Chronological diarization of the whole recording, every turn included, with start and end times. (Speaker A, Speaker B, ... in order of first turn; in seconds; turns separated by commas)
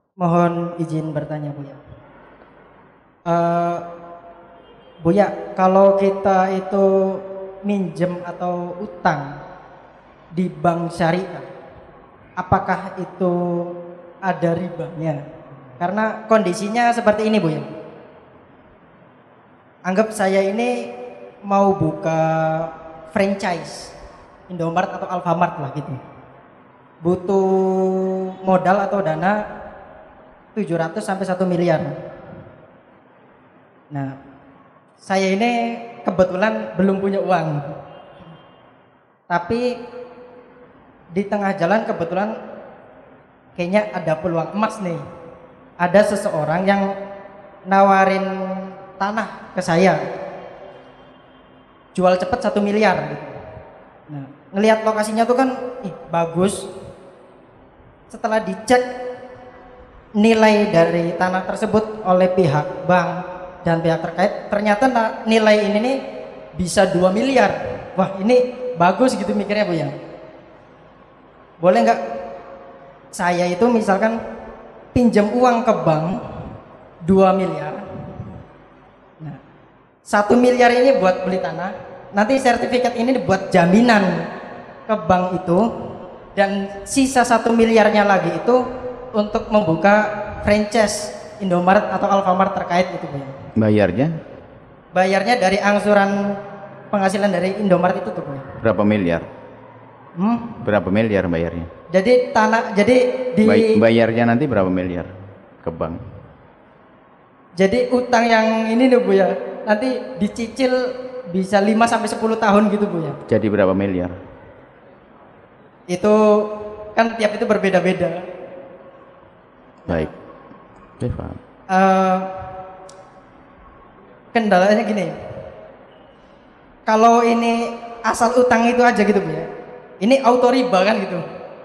Speaker A: 0.2-1.8, Speaker A: 3.3-3.8, Speaker A: 5.0-9.3, Speaker A: 10.3-11.5, Speaker A: 12.4-13.7, Speaker A: 14.2-15.2, Speaker A: 15.8-17.7, Speaker A: 19.9-20.9, Speaker A: 21.4-23.9, Speaker A: 24.5-26.0, Speaker A: 27.0-29.4, Speaker A: 30.6-31.9, Speaker A: 35.0-37.6, Speaker A: 39.3-39.6, Speaker A: 41.1-42.3, Speaker A: 43.5-45.0, Speaker A: 45.8-46.9, Speaker A: 47.7-50.0, Speaker A: 51.9-53.3, Speaker A: 54.1-56.7, Speaker A: 58.1-58.8, Speaker A: 60.2-66.0, Speaker A: 66.5-69.9, Speaker A: 71.6-72.0, Speaker A: 73.1-74.2, Speaker A: 74.9-76.2, Speaker A: 77.0-77.8, Speaker A: 80.1-84.2, Speaker A: 84.9-85.6, Speaker A: 86.3-88.6, Speaker A: 89.2-93.3, Speaker B: 93.6-94.1, Speaker A: 94.9-96.3, Speaker A: 96.9-98.5, Speaker B: 98.6-99.3, Speaker A: 100.2-100.6, Speaker B: 100.6-101.7, Speaker A: 101.9-103.8, Speaker B: 103.5-105.1, Speaker B: 105.6-106.0, Speaker A: 107.6-110.8, Speaker A: 111.3-113.2, Speaker B: 113.3-114.1, Speaker A: 115.9-118.2, Speaker B: 121.0-121.4, Speaker A: 121.7-122.4, Speaker A: 124.3-125.1, Speaker A: 126.9-129.5, Speaker A: 130.0-131.2